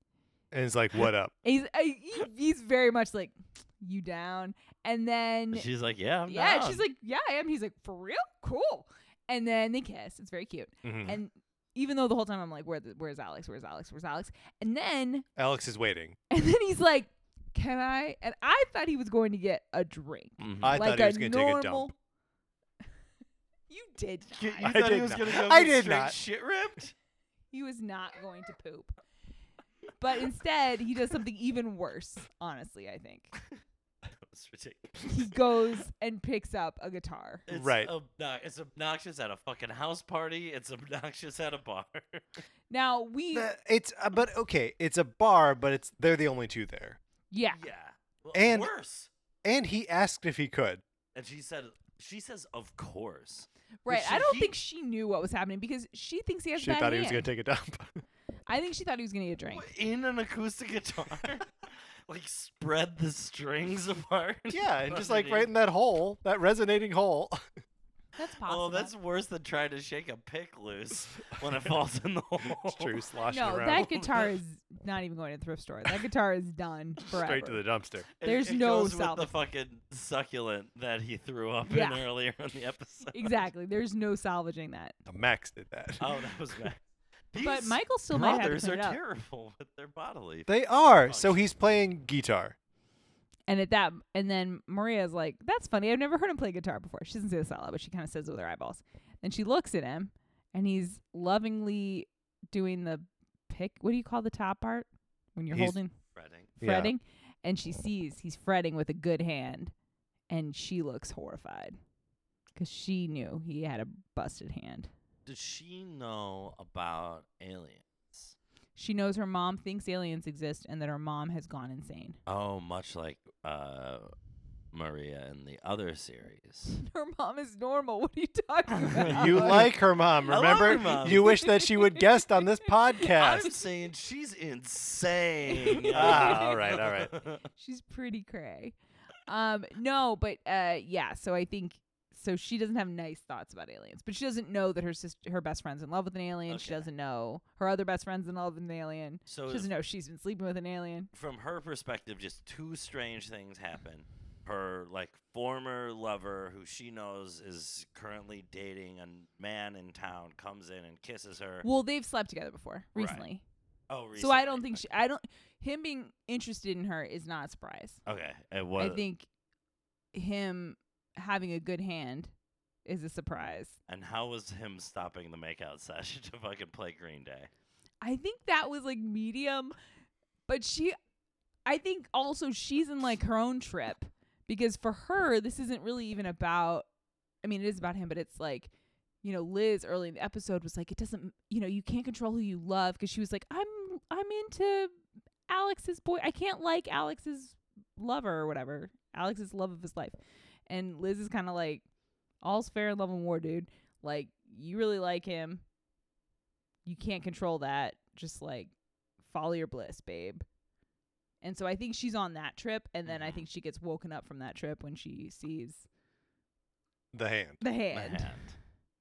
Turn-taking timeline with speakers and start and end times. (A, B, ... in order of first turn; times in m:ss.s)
0:00.5-0:01.3 A
0:01.4-0:05.7 B
0:05.5-0:06.8 C
0:06.3-0:15.3 B
0:10.8-0:11.2 A
0:15.4-0:16.2 A
0:16.3-0:21.9 B
0:20.4-0:20.8 C
0:20.6-0:21.9 A
0:23.7-0:24.8 B
0:24.4-0:27.0 C
0:24.6-0:26.2 A
0:27.5-0:29.0 B
0:30.0-0:33.3 B
0:34.3-0:35.4 C
0:35.0-0:37.4 B
0:37.5-0:42.2 C
0:37.5-0:37.9 A
0:42.7-0:43.5 B
0:43.3-0:47.0 A
0:47.3-0:47.6 B
0:47.5-0:49.1 C
0:48.3-0:48.7 A
0:49.4-0:50.8 A
0:51.2-0:54.6 C
0:53.8-0:57.3 B
0:56.6-0:58.0 A
0:58.5-0:59.7 B
0:59.5-1:05.5 C
1:04.5-1:07.4 A
1:08.2-1:08.9 B
1:08.4-1:13.0 C
1:12.6-1:13.9 A
1:13.3-1:17.6 B
1:13.6-1:14.3 C
1:17.1-1:18.1 A
1:18.2-1:23.4 C
1:18.2-1:19.3 B
1:21.7-1:22.0 B
1:23.1-1:25.0 B
1:25.1-1:26.7 A
1:26.0-1:26.8 C
1:27.3-1:30.5 C
1:27.4-1:29.0 B
1:30.5-1:32.6 A
1:31.0-1:31.5 C
1:33.5-1:45.9 B
1:45.5-1:45.8 A
1:46.2-1:46.5 C
1:46.6-1:46.9 A
1:46.6-1:49.7 B
1:50.3-1:51.8 B
1:52.6-1:54.9 B
1:55.3-1:58.4 C
1:58.8-2:02.2 B
2:02.3-2:04.1 C
2:04.7-2:06.8 C
2:06.8-2:09.8 B
2:08.8-2:09.7 C
2:09.1-2:13.6 A
2:10.2-2:11.3 C
2:10.3-2:13.5 B
2:13.1-2:17.5 C
2:15.5-2:16.9 B
2:15.9-2:17.1 A
2:17.6-2:18.8 B
2:19.3-2:31.1 B
2:26.5-2:26.9 C
2:29.3-2:29.7 C
2:31.1-2:41.7 C
2:41.6-2:43.4 B
2:43.0-2:43.2 C
2:43.9-2:44.8 C
2:44.2-2:48.0 B
2:48.1-2:49.0 C
2:48.8-2:49.3 B
2:50.1-2:52.3 B
2:52.8-2:53.8 B
2:53.9-2:57.5 C
2:58.0-2:59.8 B
3:00.5-3:01.0 B
3:01.7-3:06.9 B
3:07.4-3:08.7 B
3:09.2-3:14.9 B
3:15.5-3:20.2 B
3:20.7-3:21.8 B
3:22.4-3:25.6 B
3:26.9-3:30.4 B
3:31.4-3:35.9 B
3:33.1-3:33.4 C
3:37.1-3:37.6 A
3:37.6-3:38.4 B
3:37.9-3:38.6 C